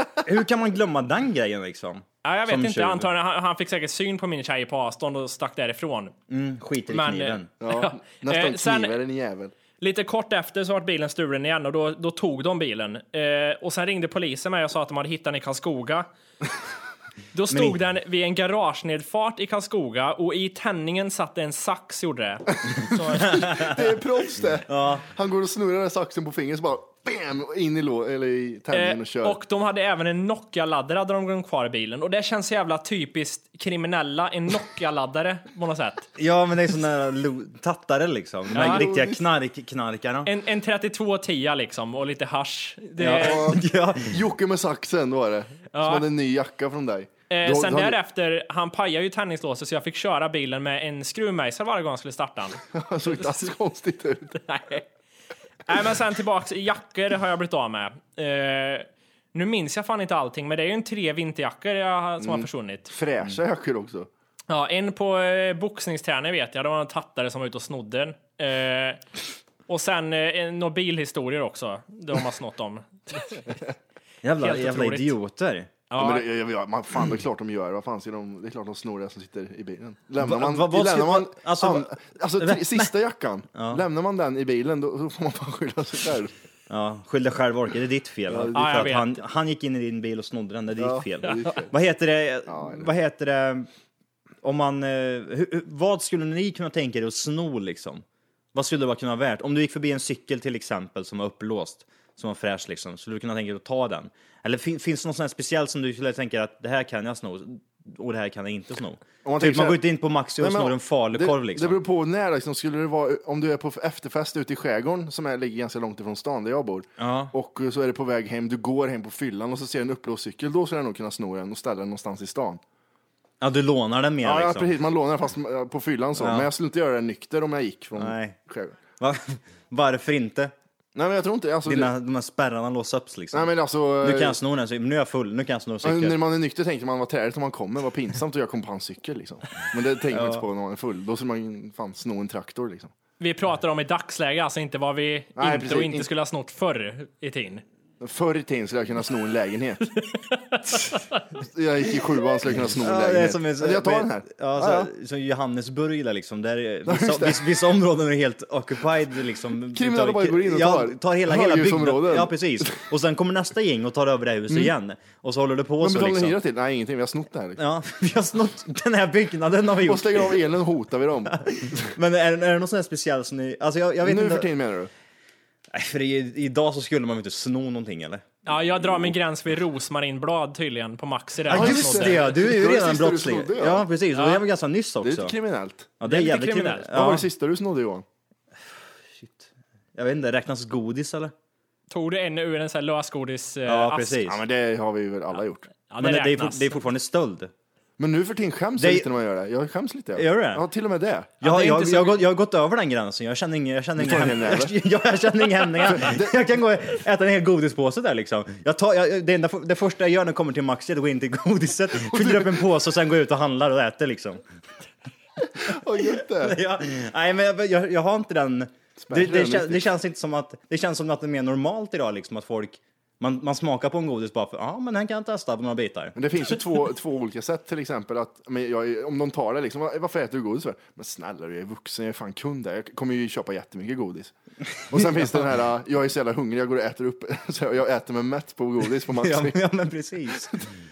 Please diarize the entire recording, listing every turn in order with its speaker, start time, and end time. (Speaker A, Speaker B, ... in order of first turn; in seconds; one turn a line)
Speaker A: 0.2-3.1
Speaker B: 2.2-6.1
Speaker A: 6.3-7.5
Speaker B: 6.9-8.9
Speaker C: 7.6-9.5
Speaker B: 9.8-16.1
Speaker B: 17.3-23.4
Speaker A: 17.5-17.8
Speaker C: 22.6-29.4
Speaker A: 23.3-23.9
Speaker A: 24.7-25.0
Speaker B: 28.7-36.1
Speaker A: 36.2-40.3
Speaker C: 38.5-39.2
Speaker B: 38.5-38.8
Speaker B: 40.2-43.5
Speaker A: 43.0-44.2
Speaker C: 43.1-48.0
Speaker B: 45.7-46.0
Speaker B: 47.3-52.6
Speaker C: 52.7-54.4
Speaker B: 54.4-54.9
Speaker B: 55.7-62.9
Speaker C: 62.2-64.1
Speaker B: 64.5-69.0
Speaker B: 69.7-73.4
Speaker A: 74.2-75.7
Speaker B: 74.4-75.1
Speaker B: 75.9-76.2
Speaker C: 76.0-86.3
Speaker A: 80.2-82.9
Speaker A: 83.5-83.8
Speaker A: 86.7-93.7
Speaker C: 88.3-88.9
Speaker B: 88.5-89.1
Speaker C: 90.8-91.7
Speaker C: 92.5-92.9
Speaker A: 94.4-111.8
Speaker C: 109.2-109.8
Speaker C: 110.4-122.6
Speaker A: 117.0-117.3
Speaker A: 123.4-124.7
Speaker C: 124.2-128.7
Speaker A: 126.2-126.5
Speaker A: 128.0-128.4
Speaker A: 129.0-130.5
Speaker C: 130.9-131.9
Speaker A: 131.7-136.2
Speaker C: 133.3-134.4
Speaker C: 135.8-142.9
Speaker A: 140.1-140.4
Speaker B: 143.2-147.6
Speaker C: 145.3-146.1
Speaker C: 148.0-149.9
Speaker B: 150.0-151.2
Speaker C: 151.4-154.9
Speaker A: 152.6-166.4
Speaker C: 156.8-157.5
Speaker C: 159.7-162.8
Speaker C: 165.8-167.6
Speaker A: 167.6-170.4
Speaker C: 169.8-171.9
Speaker A: 171.3-174.5
Speaker C: 174.0-174.9
Speaker A: 175.7-178.2
Speaker B: 178.4-182.2
Speaker A: 181.5-185.3
Speaker C: 181.5-183.8
Speaker B: 184.1-184.4
Speaker C: 185.0-185.9
Speaker A: 186.0-187.3
Speaker B: 186.0-186.9
Speaker C: 186.9-188.0
Speaker A: 189.1-191.3
Speaker B: 191.9-194.2
Speaker A: 193.7-194.4
Speaker C: 194.2-195.7
Speaker B: 195.9-196.8
Speaker A: 196.0-197.5
Speaker C: 198.0-201.7
Speaker A: 198.8-199.1
Speaker A: 200.1-200.6
Speaker A: 201.4-214.4
Speaker B: 201.4-202.1
Speaker C: 204.0-204.7
Speaker C: 205.9-206.4
Speaker C: 212.0-212.6
Speaker C: 215.5-216.6
Speaker A: 216.0-226.5
Speaker C: 219.0-219.8
Speaker C: 226.2-239.6
Speaker A: 234.9-235.3
Speaker A: 239.1-240.7